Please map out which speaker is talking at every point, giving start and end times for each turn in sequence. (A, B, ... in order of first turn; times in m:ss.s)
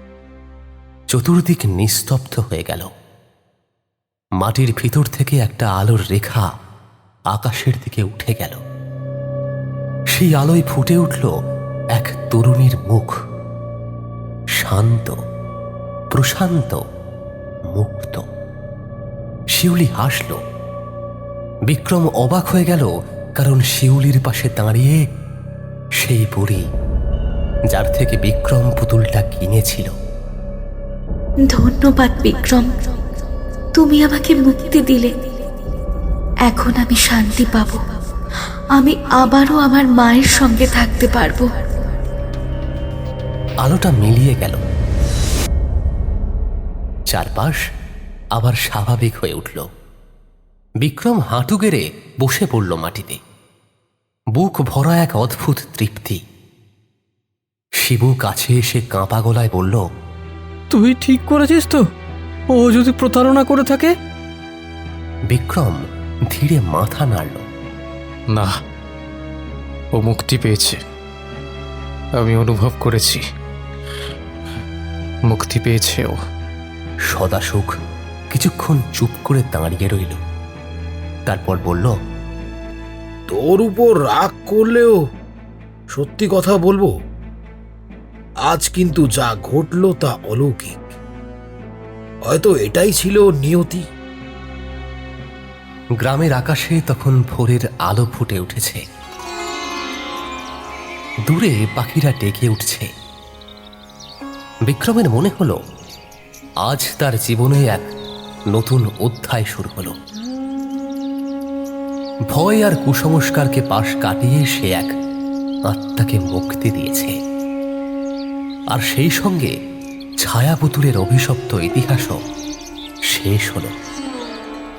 0:01.1-0:02.9 A
0:04.4-0:06.5 A
0:07.3-0:08.6 A
0:10.1-0:11.3 A
0:12.0-0:13.1 A
0:14.6-0:15.2 A
0:16.1-0:16.8 A
0:17.7-0:18.3 A
0:19.5-0:20.4 A
0:21.7-0:25.0 A
0:26.0-0:26.7 A
0:27.7-0:29.9 A
0:31.4-0:32.8 B
0:33.8-0:35.1 B
0:36.5-0:37.8 B
0:38.8-0:41.5 B
0:43.6-0:44.6 A
0:47.1-0:47.6 A
0:48.4-0:49.7 A
0:50.8-0:53.2 A
0:54.4-0:56.2 A
0:57.8-0:59.8 A
1:00.7-1:01.8 C
1:02.5-1:03.9 C
1:05.3-1:07.5 A
1:10.0-1:10.8 D
1:12.2-1:13.2 D
1:15.3-1:16.2 D
1:17.1-1:17.7 A
1:18.3-1:20.2 A
1:21.3-1:21.9 A
1:23.3-1:25.0 E
1:25.9-1:26.9 E
1:28.5-1:30.9 E
1:32.3-1:33.8 E
1:36.0-1:38.8 A
1:41.3-1:42.9 A
1:44.7-1:45.6 A
1:46.6-1:47.9 A
1:48.5-1:50.0 A
1:52.3-1:54.9 A
1:55.7-1:57.2 A
1:58.7-1:59.5 A
2:00.2-2:02.2 A
2:03.1-2:03.7 A